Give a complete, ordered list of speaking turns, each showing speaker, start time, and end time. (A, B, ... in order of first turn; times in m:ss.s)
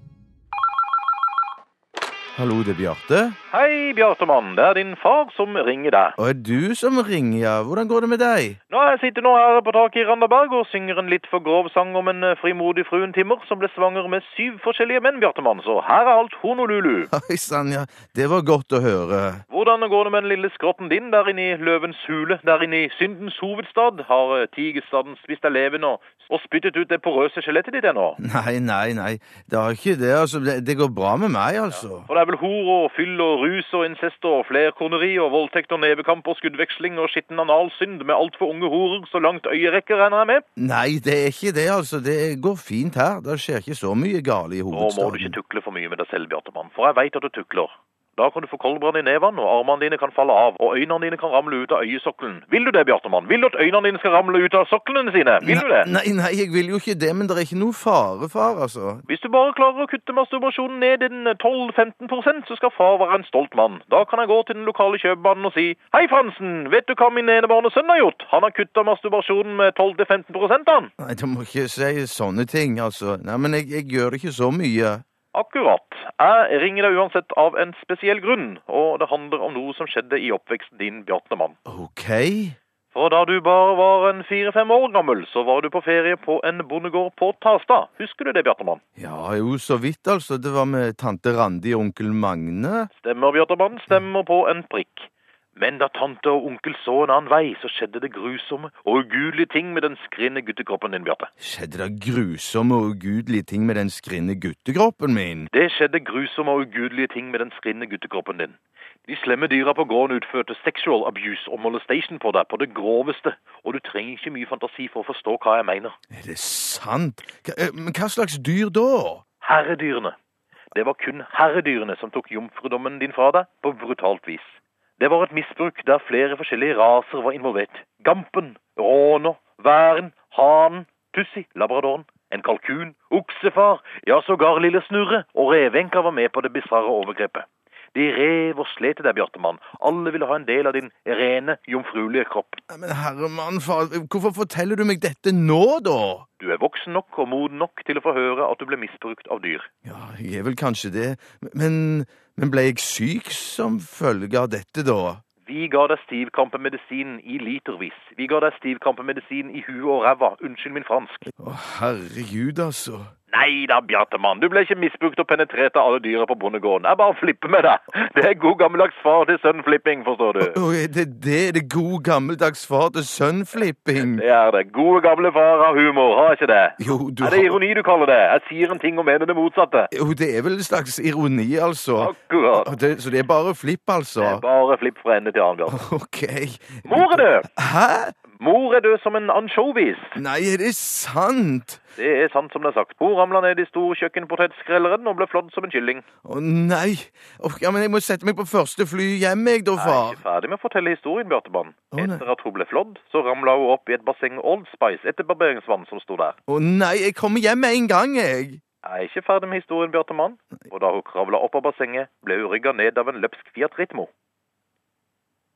0:02.3-0:03.4 A
0:03.5-0:06.2 B
0:06.2-0:08.6 A
0:08.7-0:17.1 B
0:17.1-0:19.4 A
0:19.5-0:28.2 B
0:28.2-0:32.1 A
0:32.1-0:40.4 B
0:40.6-0:45.4 A
0:44.7-0:55.9 B
0:55.4-0:59.0 A
0:59.1-1:10.9 B
1:11.0-1:15.0 A
1:15.3-1:21.6 B
1:21.6-1:22.6 A
1:22.9-1:28.8 B
1:29.0-1:32.9 A
1:33.0-1:41.3 B
1:41.4-1:45.5 A
1:45.5-1:56.0 B
1:56.1-1:59.2 A
1:59.4-2:00.1 B
2:00.7-2:22.6 B
2:22.7-2:26.3 A
2:26.4-2:29.7 B
2:29.8-2:35.2 A
2:35.4-2:41.2 B
2:41.4-2:43.1 A
2:43.3-2:50.6 B
2:50.4-2:54.2 A
2:54.0-2:59.9 B
2:56.8-2:57.6 A
2:59.9-3:04.4 A
3:02.0-3:02.7 B
3:04.2-3:05.8 B
3:05.7-3:08.2 A
3:06.9-3:07.5 B
3:08.3-3:10.2 B
3:10.1-3:11.8 A
3:12.0-3:16.0 B
3:16.2-3:20.2 A
3:19.8-3:26.4 B
3:21.9-3:22.2 A
3:26.5-3:28.6 A
3:28.8-3:34.1 B